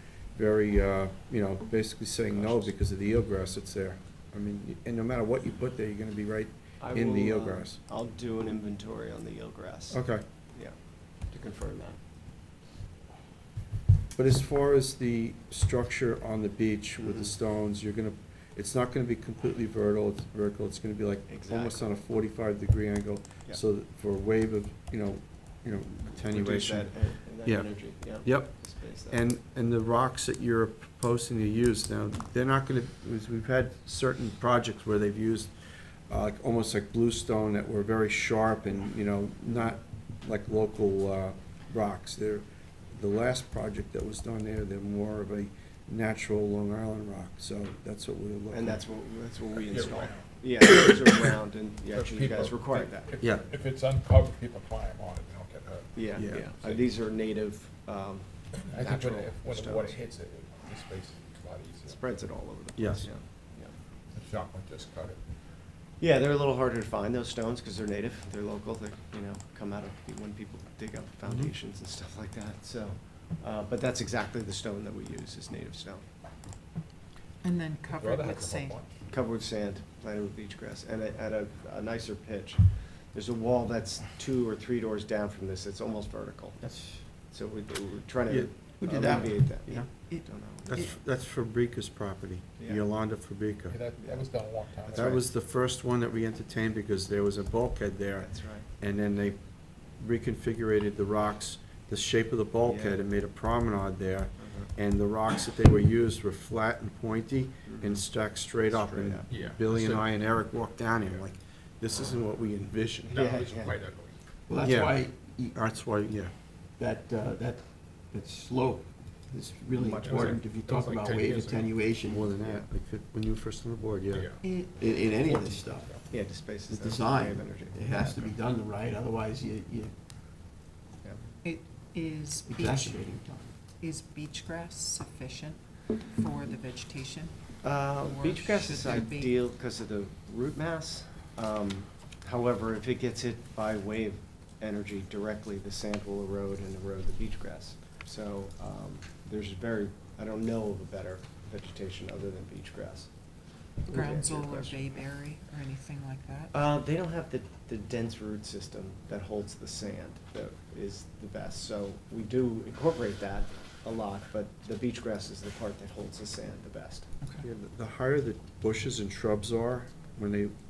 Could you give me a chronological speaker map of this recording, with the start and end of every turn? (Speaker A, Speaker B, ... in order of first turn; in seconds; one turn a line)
Speaker A: 0.3-7.8
Speaker B: 2.3-2.7
Speaker B: 6.8-10.0
Speaker A: 9.9-10.2
Speaker B: 11.3-12.0
Speaker A: 14.2-26.9
Speaker B: 17.0-17.3
Speaker B: 21.3-21.8
Speaker B: 26.2-29.2
Speaker A: 27.4-35.5
Speaker A: 36.1-48.8
Speaker B: 48.5-53.1
Speaker C: 49.6-50.3
Speaker C: 51.9-56.9
Speaker B: 55.9-60.0
Speaker A: 56.1-56.4
Speaker C: 58.7-62.0
Speaker B: 61.9-63.7
Speaker A: 62.8-63.1
Speaker C: 64.1-65.2
Speaker B: 66.0-76.0
Speaker D: 77.4-78.8
Speaker C: 77.9-79.0
Speaker B: 79.1-90.9
Speaker E: 86.6-87.1
Speaker A: 88.3-89.8
Speaker E: 88.9-89.9
Speaker D: 90.1-90.8
Speaker A: 90.6-93.8
Speaker C: 93.7-95.1
Speaker B: 94.0-95.2
Speaker A: 94.9-99.4
Speaker B: 98.2-98.7
Speaker A: 100.0-113.2
Speaker B: 102.6-103.0
Speaker B: 104.4-104.7
Speaker B: 107.7-108.0
Speaker B: 108.7-109.4
Speaker C: 109.3-110.1
Speaker C: 113.1-114.2
Speaker B: 113.1-113.8
Speaker E: 114.5-115.6
Speaker A: 114.6-115.0
Speaker A: 115.5-116.3
Speaker E: 116.8-122.3
Speaker C: 119.8-121.7
Speaker B: 120.1-120.4
Speaker A: 122.1-124.3
Speaker C: 124.1-124.4
Speaker D: 124.4-125.6
Speaker E: 124.8-126.1
Speaker C: 125.7-126.0
Speaker B: 126.1-128.3
Speaker E: 126.7-129.9
Speaker D: 131.4-133.2
Speaker E: 132.5-133.5
Speaker D: 133.8-139.4
Speaker B: 137.6-153.1
Speaker B: 153.8-154.9
Speaker D: 153.9-156.5
Speaker B: 156.5-167.1
Speaker A: 167.4-170.5